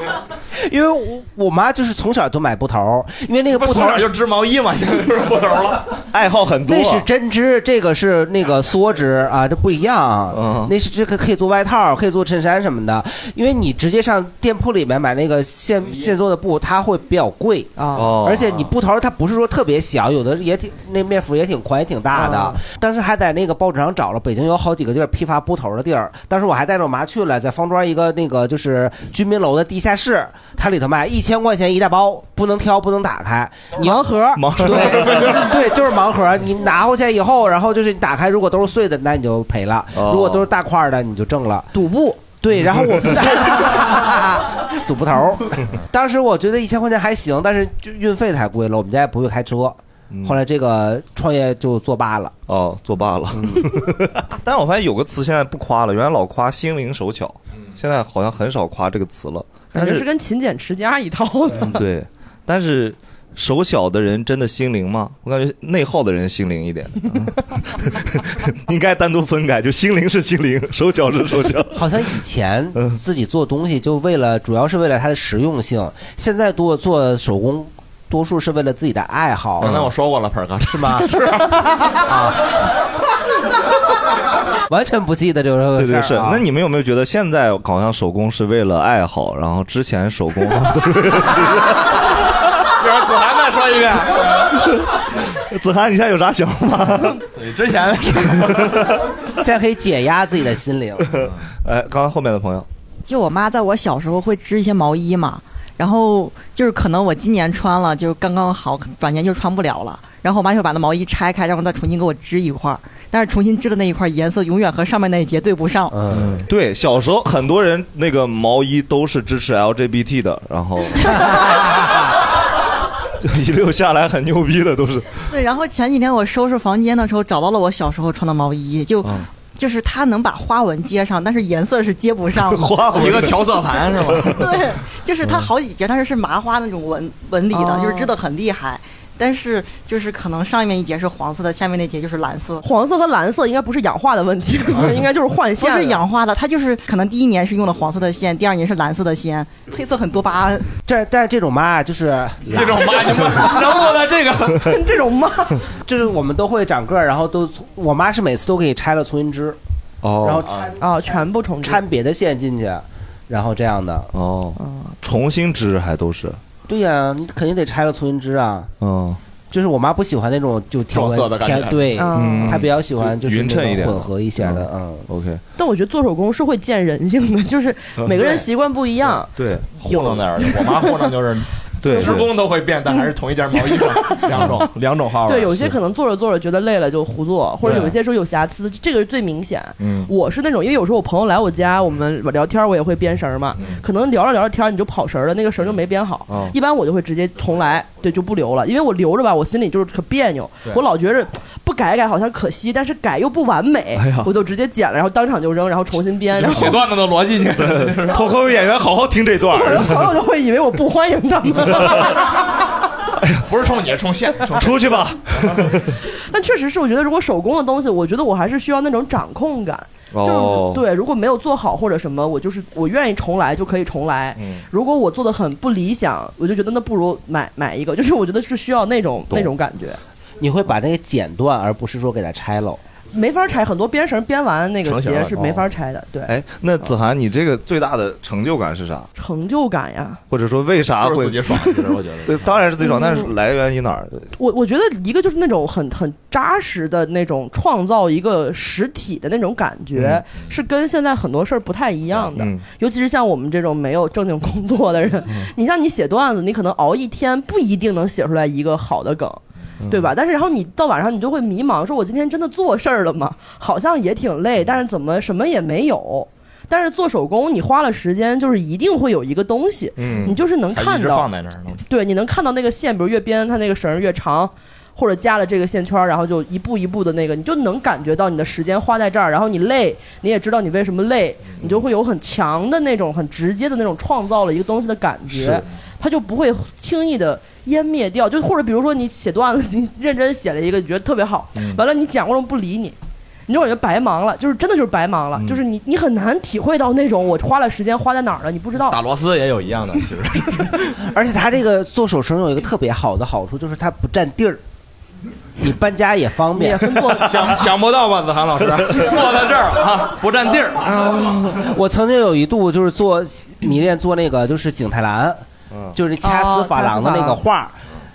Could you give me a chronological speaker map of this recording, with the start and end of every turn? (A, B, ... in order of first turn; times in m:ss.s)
0:00.5-0:04.1 A
0:03.5-0:05.8 B
0:06.1-0:07.0 C
0:06.7-0:34.0 A
0:10.3-0:10.7 C
0:17.8-0:18.1 D
0:17.9-0:18.7 C
0:22.2-0:22.6 D
0:33.8-0:34.4 D
0:34.4-0:35.4 C
0:34.5-0:41.7 A
0:39.9-0:40.4 C
0:41.7-0:42.2 D
0:42.4-0:52.3 A
0:52.5-1:00.0 C
0:53.3-0:53.6 A
0:59.7-1:01.8 D
1:01.6-1:11.8 C
1:11.7-1:19.7 A
1:19.6-1:19.9 C
1:19.6-1:21.6 B
1:20.6-1:21.2 A
1:21.9-1:22.4 A
1:24.7-1:26.4 A
1:25.8-1:31.8 C
1:32.8-1:34.4 B
1:35.5-1:37.2 C
1:37.2-1:38.8 B
1:39.4-1:41.1 A
1:41.1-1:42.7 C
1:43.0-1:56.0 E
1:55.9-1:56.3 A
1:56.1-2:01.6 C
2:03.2-2:05.1 C
2:05.3-2:12.8 E
2:12.4-2:14.4 C
2:12.9-2:14.4 B
2:14.3-2:22.6 E
2:15.2-2:15.5 C
2:17.5-2:18.1 D
2:22.6-2:26.0 D
2:25.6-2:30.7 E
2:30.9-2:33.3 A
2:32.5-2:34.7 B
2:34.6-2:35.6 D
2:35.8-2:39.6 A
2:40.0-2:40.4 C
2:40.2-2:40.8 A
2:40.4-2:40.7 B
2:40.8-2:41.8 D
2:41.6-2:44.1 A
2:44.1-2:46.4 C
2:44.6-2:44.9 D
2:46.7-2:48.7 A
2:48.8-2:49.2 C
2:49.5-2:55.0 A
2:50.9-2:52.0 B
2:52.0-2:52.6 D
2:52.1-2:55.4 C
2:55.6-3:00.9 D
2:58.2-2:58.4 B
2:59.4-2:59.6 C
2:59.8-3:05.7 B
3:01.8-3:02.3 C
3:01.9-3:02.2 D
3:05.3-3:26.8 D
3:09.8-3:10.1 C
3:16.3-3:16.6 C
3:24.0-3:24.3 C
3:26.4-3:28.3 B
3:26.5-3:26.8 C
3:27.6-3:30.1 C
3:29.5-3:32.2 D
3:33.4-3:35.0 B
3:34.5-3:36.0 C
3:36.1-3:50.0 D
3:40.1-3:40.8 C
3:44.4-3:44.6 C
3:50.4-3:52.8 A
3:53.1-3:56.9 D
3:54.8-3:55.6 B
3:56.3-3:59.1 C
3:59.2-4:00.2 D
4:00.3-4:04.3 C
4:01.0-4:02.6 B
4:02.8-4:03.3 D
4:04.4-4:31.3 D
4:09.9-4:10.2 C
4:12.3-4:12.6 C
4:19.8-4:20.1 C
4:30.0-4:30.4 C
4:30.7-4:31.8 B
4:31.9-4:53.0 D
4:53.5-4:59.0 D
4:58.9-5:00.8 B
5:01.0-5:04.6 A
5:05.6-5:06.9 A
5:06.5-5:07.4 D
5:07.2-5:11.0 B
5:11.0-5:11.3 D
5:11.5-5:17.8 A
5:16.2-5:17.4 D